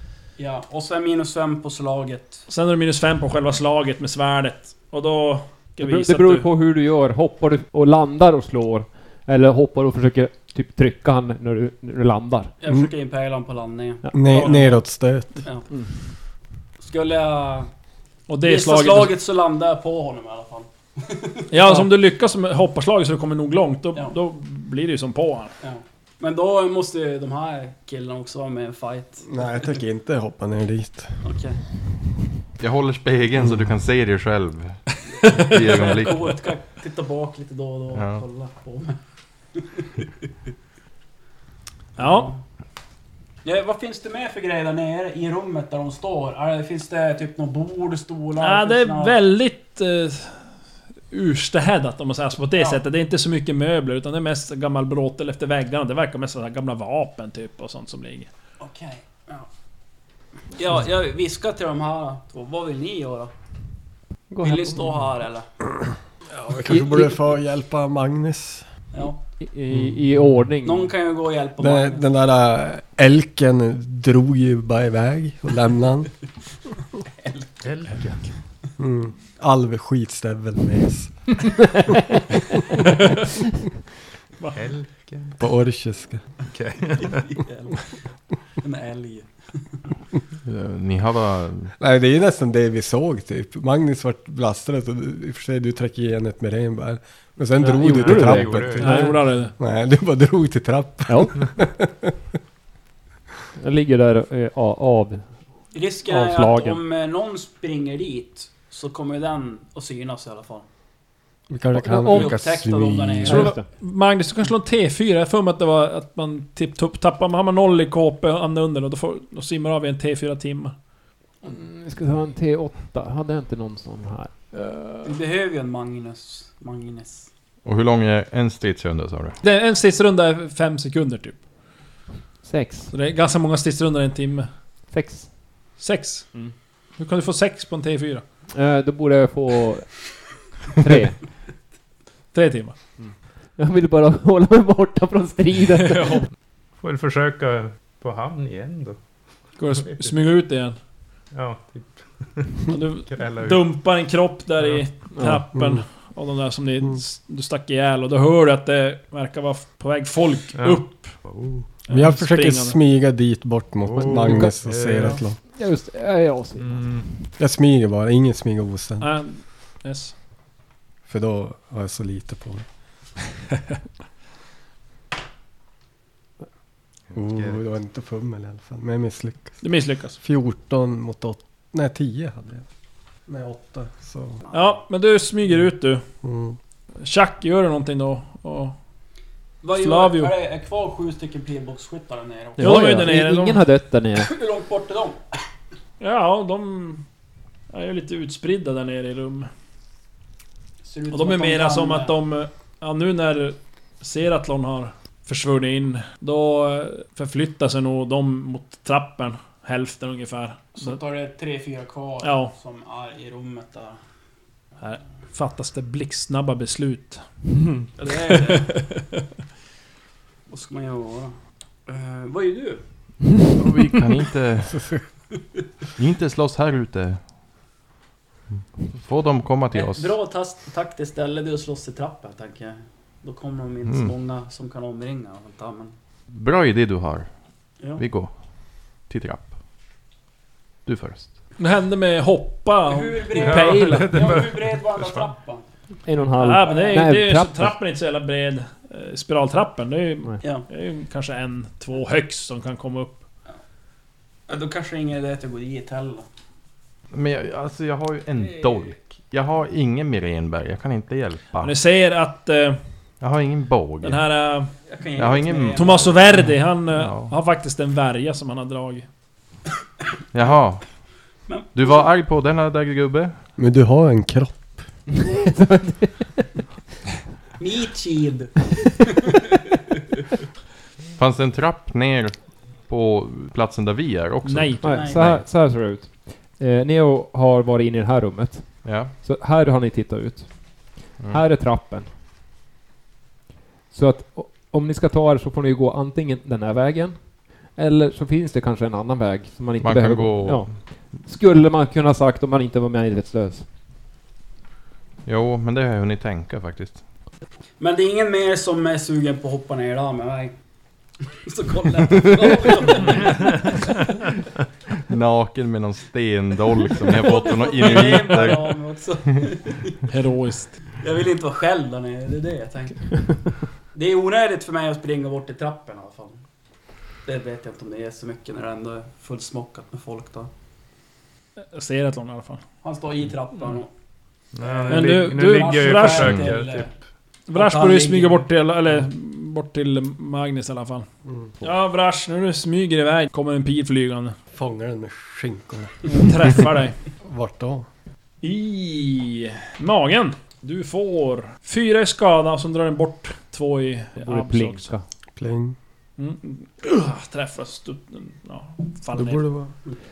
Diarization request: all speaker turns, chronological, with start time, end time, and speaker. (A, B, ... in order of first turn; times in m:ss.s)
0:00.4-0:02.4 A
0:02.5-0:06.5 B
0:05.8-0:12.5 C
0:12.6-0:14.0 A
0:14.1-0:15.4 D
0:14.3-0:14.8 B
0:16.8-0:17.7 A
0:18.3-0:19.1 B
0:18.4-0:21.5 A
0:21.5-0:25.5 B
0:25.6-0:29.7 A
0:29.3-0:31.2 D
0:31.2-0:31.6 A
0:32.6-0:36.4 E
0:35.2-0:39.0 A
0:35.2-0:35.5 B
0:37.9-0:38.2 E
0:39.5-0:40.1 A
0:42.0-0:42.3 B
0:42.0-0:42.4 A
0:43.4-0:49.2 A
0:48.4-0:50.5 B
0:51.1-0:58.3 B
0:52.5-0:52.8 A
0:58.6-0:59.5 A
1:00.5-1:03.3 A
1:04.3-1:05.0 C
1:04.4-1:05.4 A
1:06.4-1:08.7 D
1:08.9-1:09.2 A
1:09.4-1:10.9 C
1:09.7-1:10.4 D
1:10.6-1:12.0 A
1:11.6-1:16.1 D
1:17.2-1:17.5 A
1:17.6-1:18.2 F
1:18.8-1:21.4 D
1:24.5-1:25.4 F
1:25.4-1:26.2 D
1:26.5-1:27.2 F
1:27.3-1:28.0 A
1:28.6-1:29.8 A
1:30.4-1:31.7 E
1:31.8-1:39.0 D
1:37.6-1:39.2 C
1:37.9-1:39.1 F
1:38.8-1:39.5 B
1:39.6-1:42.1 D
1:41.1-1:41.4 C
1:43.6-1:45.3 C
1:45.7-1:50.6 A
1:46.0-1:46.8 C
1:51.5-1:53.5 D
1:51.7-1:52.4 C
1:52.1-1:53.5 A
1:53.2-1:53.6 C
1:53.3-2:00.7 B
2:01.4-2:04.3 C
2:04.5-2:05.1 B
2:05.0-2:07.3 A
2:07.6-2:09.4 E
2:09.4-2:11.4 B
2:12.4-2:12.9 C
2:12.9-2:14.5 B
2:14.9-2:15.3 C
2:15.8-2:18.2 B
2:18.5-2:21.2 C
2:22.3-2:22.8 B
2:23.0-2:26.2 C
2:25.8-2:26.2 B
2:26.8-2:29.0 F
2:29.6-2:30.8 B
2:29.8-2:30.2 F
2:31.3-2:33.7 F
2:32.7-2:41.2 B
2:34.6-2:34.9 F
2:35.1-2:35.5 C
2:40.6-2:41.6 F
2:41.8-2:42.8 B
2:41.9-2:45.4 D
2:43.8-2:45.2 F
2:44.0-2:47.2 C
2:46.6-2:47.1 F
2:47.4-2:49.1 D
2:49.0-2:50.1 B
2:51.0-2:52.6 D
2:57.1-2:57.6 F
2:57.1-2:59.6 D
2:59.6-3:00.2 B
3:00.2-3:02.6 D
3:03.3-3:04.4 D
3:04.5-3:04.7 A
3:04.5-3:06.0 B
3:06.2-3:06.6 D
3:07.0-3:08.7 B
3:09.6-3:12.7 A
3:09.7-3:10.4 B
3:12.6-3:13.6 B
3:12.6-3:14.3 C
3:14.2-3:15.2 A
3:16.0-3:17.0 B
3:17.7-3:19.5 B
3:20.8-3:22.2 A
3:21.1-3:31.0 B
3:30.8-3:34.0 A
3:32.2-3:32.5 B
3:34.8-3:39.0 B
3:38.0-3:38.9 A
3:40.5-3:42.8 A
3:43.6-3:44.9 E
3:44.7-3:45.0 D
3:46.0-3:47.2 E
3:48.9-3:50.2 E
3:49.7-3:55.9 A
3:53.8-3:54.1 E
3:56.3-3:57.3 E
3:57.8-3:58.0 A
3:57.9-3:58.3 E
3:59.0-3:59.5 E
4:00.8-4:01.4 E
4:01.6-4:04.3 B
4:02.9-4:05.6 A
4:03.3-4:05.3 F
4:06.0-4:07.7 C
4:06.4-4:13.2 B
4:06.6-4:07.0 A
4:14.5-4:16.2 A
4:17.1-4:21.7 E
4:18.5-4:18.9 A
4:21.6-4:22.8 B
4:23.2-4:24.3 E
4:24.0-4:24.7 B
4:24.8-4:26.4 A
4:25.2-4:27.4 E
4:25.7-4:29.0 B
4:30.3-4:30.9 E
4:31.5-4:32.1 A
4:31.7-4:33.4 E
4:33.6-4:34.7 D
4:35.6-4:35.9 C
4:37.6-4:39.4 A
4:41.2-4:45.2 E
4:44.4-4:44.8 B
4:44.8-4:52.1 C
4:44.9-4:45.4 A
4:48.8-4:49.2 E
4:53.9-5:03.6 C
4:59.8-5:00.8 E
5:05.2-5:07.0 E
5:07.8-5:10.5 A
5:11.4-5:14.1 A
5:15.1-5:18.9 E
5:17.0-5:20.0 A
5:20.1-5:20.8 B
5:21.0-5:26.4 A
5:27.2-5:30.5 A
5:31.6-5:32.6 B
5:32.8-5:33.9 A
5:34.5-5:37.0 F
5:34.6-5:36.9 A
5:34.9-5:36.5 B
5:37.5-5:41.1 B
5:37.5-5:38.4 A
5:41.6-5:44.4 B
5:44.5-5:46.0 D
5:46.1-5:47.0 B
5:47.2-5:47.8 D
5:48.4-5:54.9 B
5:54.2-5:55.0 C
5:55.4-5:55.8 D
5:56.2-5:59.4 B
5:59.1-5:59.7 D